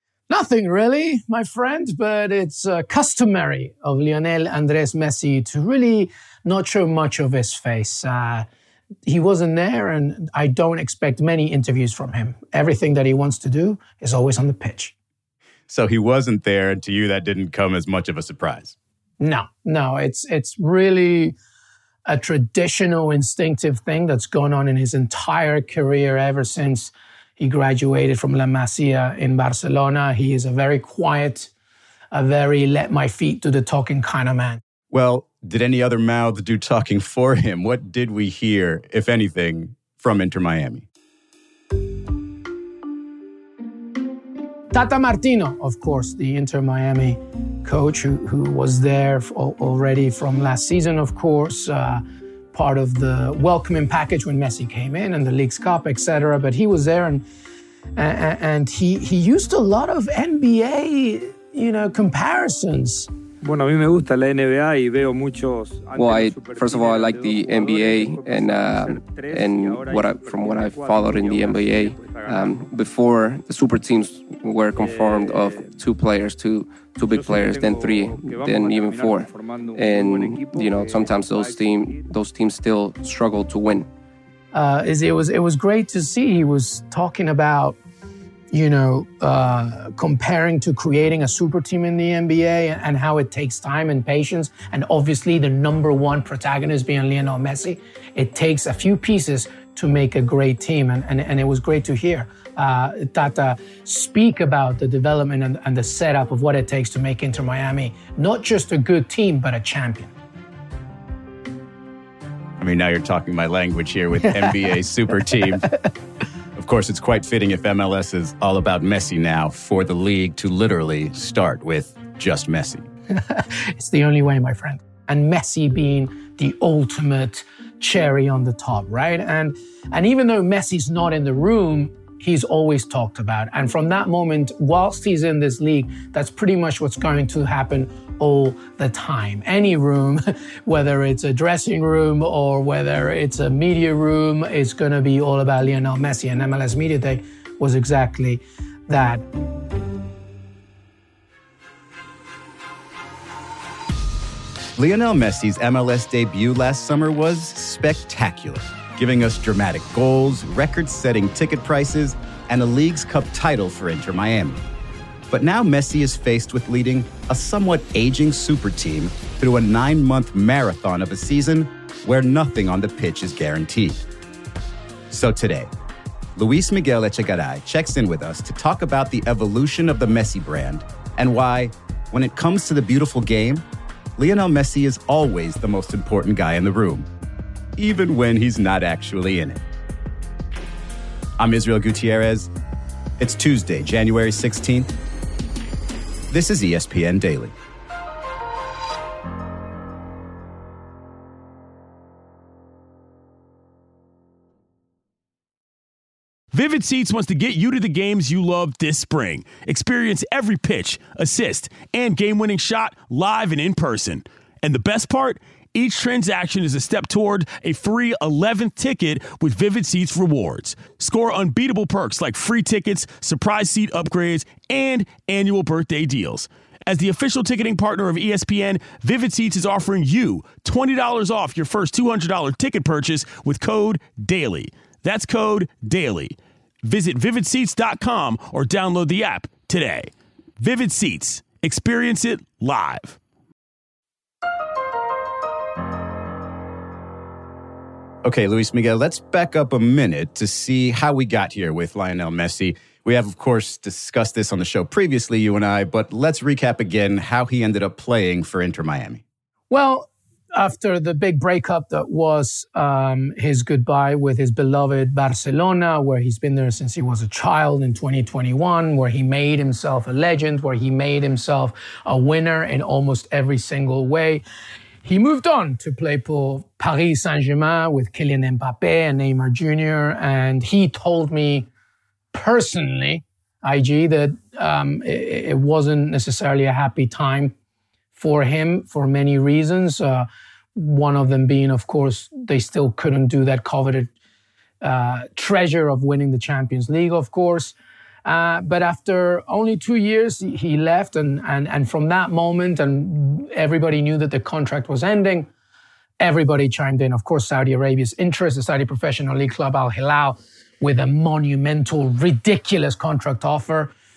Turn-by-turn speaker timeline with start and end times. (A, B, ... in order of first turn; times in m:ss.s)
0:00.3-0:08.4 A
0:09.0-0:14.9 A
0:15.7-0:18.8 B
0:19.2-0:21.3 A
0:22.1-0:31.5 A
0:32.1-0:34.6 A
0:34.9-0:40.8 B
0:44.7-0:57.2 A
0:58.0-1:03.1 A
1:03.4-1:12.6 C
1:06.0-1:23.9 D
1:14.8-1:15.7 C
1:17.1-1:22.1 C
1:24.5-1:27.8 A
1:28.5-1:50.1 A
1:52.6-1:55.7 B
1:56.6-2:02.9 B
2:03.1-2:29.2 A
2:34.8-2:44.6 B
2:45.3-2:54.0 B
2:55.1-2:55.7 B
2:56.4-3:03.6 B
3:04.2-3:07.1 B
3:07.8-3:09.6 B
3:11.4-3:12.5 B
3:13.2-3:14.9 B
3:16.3-3:17.5 B
3:26.5-4:03.2 E
4:08.2-4:19.2 B
4:19.7-4:34.4 A
4:35.0-4:41.7 A
4:42.3-4:47.5 A
4:48.2-4:54.1 A
4:54.8-4:57.7 A
4:58.2-5:05.5 A
5:06.2-5:13.9 A